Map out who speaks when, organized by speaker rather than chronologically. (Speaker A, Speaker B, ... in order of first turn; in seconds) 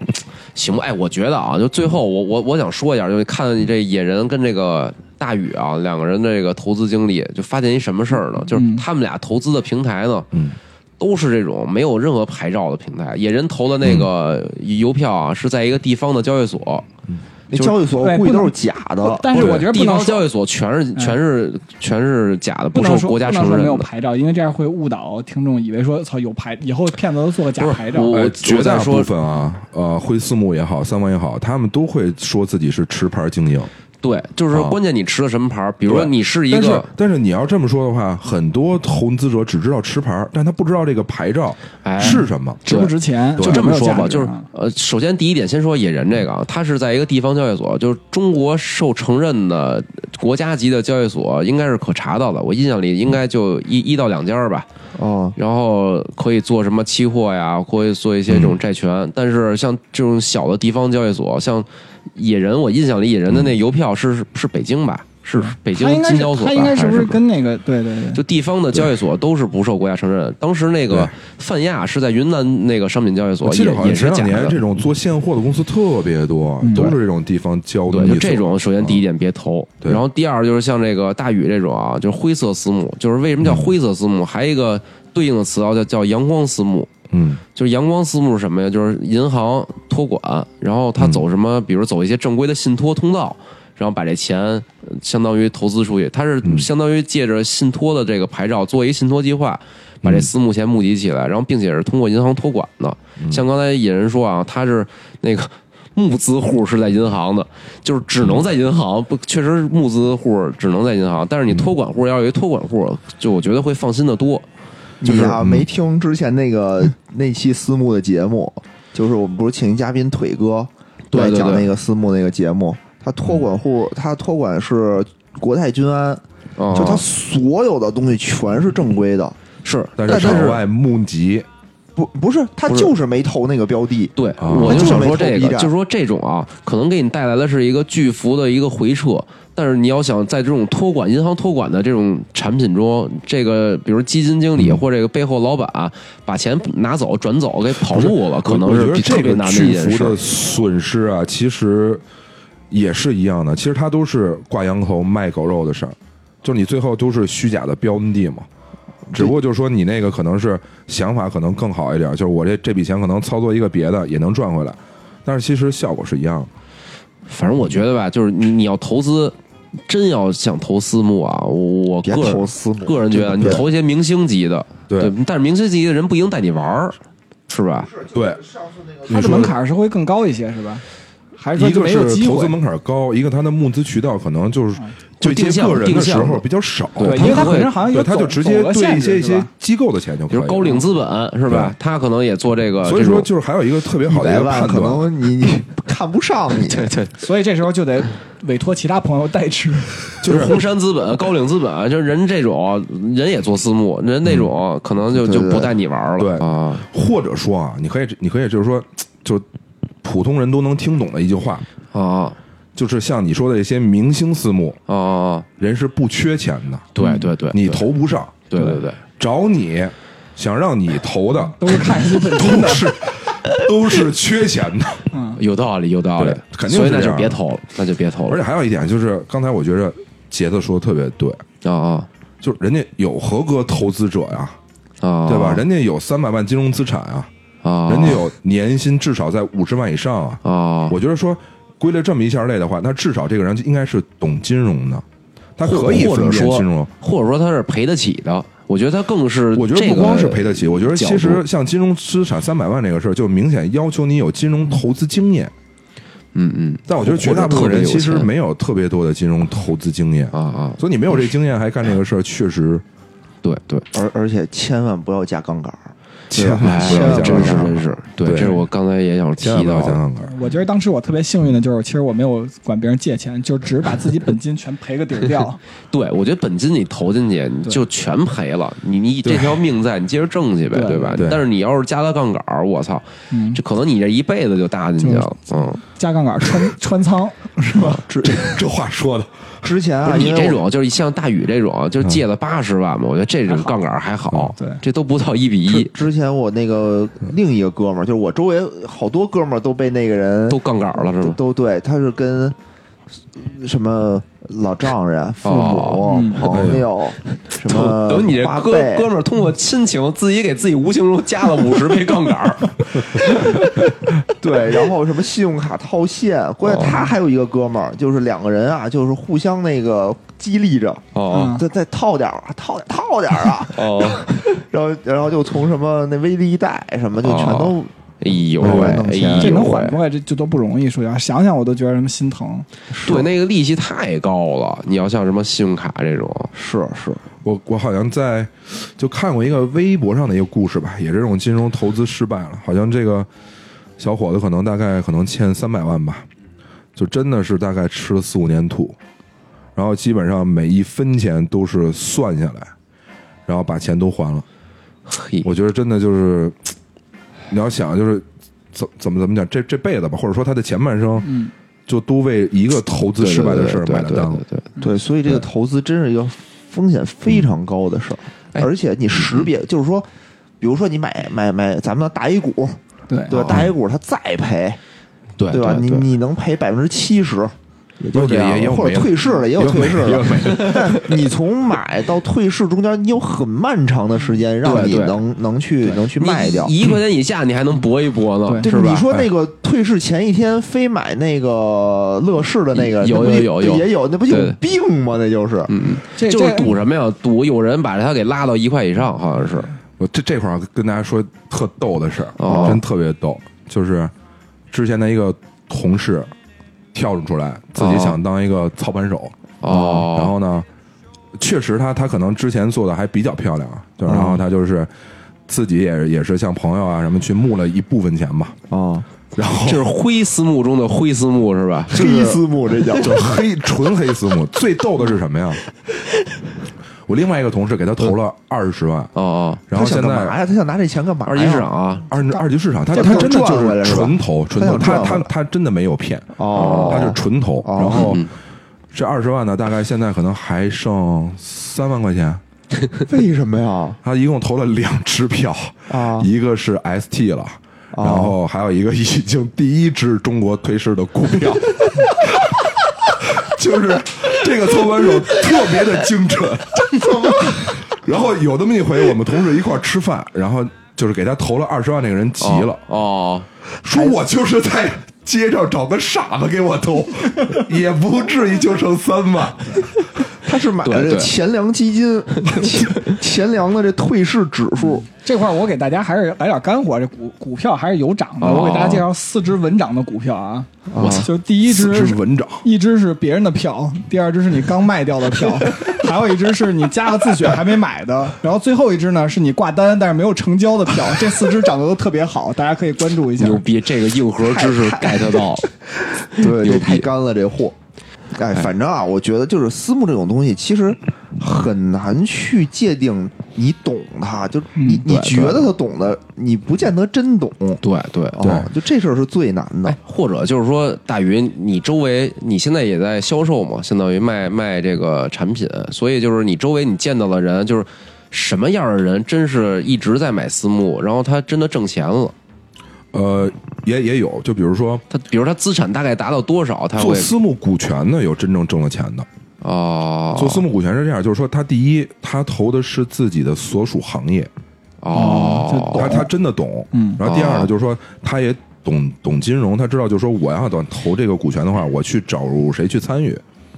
Speaker A: 0.6-10.3, 11.0-16.9, 19.3-23.9, 27.6-29.1, 34.0-36.9, 41.8-54.7, 55.4-67.2, 68.1-74.6, 77.9-86.9, 87.5-114.5, 115.0-115.4, 121.1-121.7, 126.6-127.0, 129.6-130.6, 132.7-132.9, 134.2-150.2, 167.3-169.3, 169.9-177.0, 177.5-177.9, 185.2-186.4, 187.0-187.7, 190.3-193.3, 196.7-197.2, 200.2-206.8, 211.9-212.4, 214.9-215.5, 216.9-217.9, 218.5-219.0, 225.4-228.4, 231.6-232.1, 235.0-235.6, 237.6-238.2, 240.4-241.0, 245.6-251.4, 256.3-258.3, 260.3-260.8, 263.4-263.9, 266.6-270.0, 275.9-285.8, 290.0-295.9, 300.5-301.4, 305.4-306.1, 307.3-313.5, 316.6-317.0, 321.1-321.6, 323.7-324.3, 327.2-330.0, 333.0-336.5, 355.1-355.5, 363.2-364.7, 375.4-376.1, 384.6-385.2, 386.2-389.1, 392.7-394.6, 395.7-399.7, 402.4-402.8, 407.8-408.2, 409.6-410.3, 419.6-422.3, 429.1-429.6, 431.3-432.1, 436.6-437.1, 437.9-438.3, 462.4-463.5, 470.8-471.3, 472.6-472.9, 478.4-479.1, 481.0-481.3, 493.4-495.7, 496.4-497.1, 505.1-505.7, 507.8-508.4, 509.9-522.3, 525.1-527.3, 529.6-530.6, 535.0-536.1, 537.2-537.7
Speaker B: 8.5-8.9, 18.0-20.3, 22.7-28.2, 42.0-44.5, 65.4-68.2, 76.6-77.0, 179.1-180.8, 181.4-182.6, 187.0-189.5, 197.2-200.1, 217.0-217.3, 221.6-222.9, 225.1-225.4, 270.2-275.6, 280.7-281.2, 283.3-283.6, 285.0-288.0, 306.1-306.5, 321.3-321.6, 328.8-332.7, 361.2-361.5, 373.1-373.4, 388.5-388.7, 396.2-396.8, 475.2-493.6, 504.8-505.1, 535.1-536.3, 536.9-537.2
Speaker C: 17.5-19.3, 55.0-55.4, 115.0-129.4, 130.1-130.6, 132.0-135.7, 159.1-159.4, 172.0-173.7, 177.9-179.1, 194.1-196.9, 205.1-205.7, 263.9-267.9, 288.2-288.4, 289.6-290.6, 295.7-302.6, 303.3-309.1, 314.3-327.9, 328.6-329.7, 332.9-333.3, 336.5-337.2, 364.8-370.1, 370.6-374.8, 375.5-386.8, 388.6-395.7, 414.1-414.4, 418.7-419.1, 421.9-423.3, 429.7-431.7, 432.9-435.3, 436.4-438.2, 443.1-444.0, 445.9-446.3, 447.9-448.4, 456.9-457.7, 463.9-464.2, 470.4-475.1, 480.9-481.3, 494.6-495.2, 496.2-497.8, 498.3-507.8, 508.4-510.0
Speaker D: 19.3-19.7, 28.1-33.7, 34.5-34.8, 35.9-42.6, 43.4-43.7, 58.3-58.6, 73.4-79.0, 83.4-83.7, 87.1-87.4, 91.0-91.2, 100.0-100.3, 115.4-115.7, 130.0-131.5, 134.4-135.1, 147.9-152.0, 152.7-158.5, 159.1-166.5, 174.9-175.1, 178.1-178.4, 179.1-179.6, 181.6-190.8, 191.5-191.8, 192.8-195.1, 200.2-200.6, 206.2-209.4, 210.0-211.7, 212.8-214.8, 215.6-216.9, 217.5-225.1, 226.2-227.4, 228.3-231.4, 232.4-234.6, 235.3-237.3, 237.9-245.0, 245.6-246.9, 249.5-255.5, 256.9-262.8, 266.3-268.6, 269.4-270.3, 279.2-279.6, 281.2-281.4, 288.1-289.5, 306.4-306.9, 328.6-329.0, 337.4-343.3, 344.0-346.2, 347.0-349.0, 349.8-352.7, 353.5-354.4, 355.4-356.7, 357.5-364.4, 378.1-381.2, 400.0-404.1, 404.7-406.3, 406.9-410.7, 411.4-414.9, 415.5-418.6, 419.4-419.9, 422.9-425.7, 427.1-429.1, 429.7-430.4, 432.1-438.3, 438.9-442.4, 444.0-462.8, 463.8-469.9, 481.6-482.7, 508.4-508.7, 523.1-525.0, 527.0-529.3, 530.4-534.5, 535.9-543.4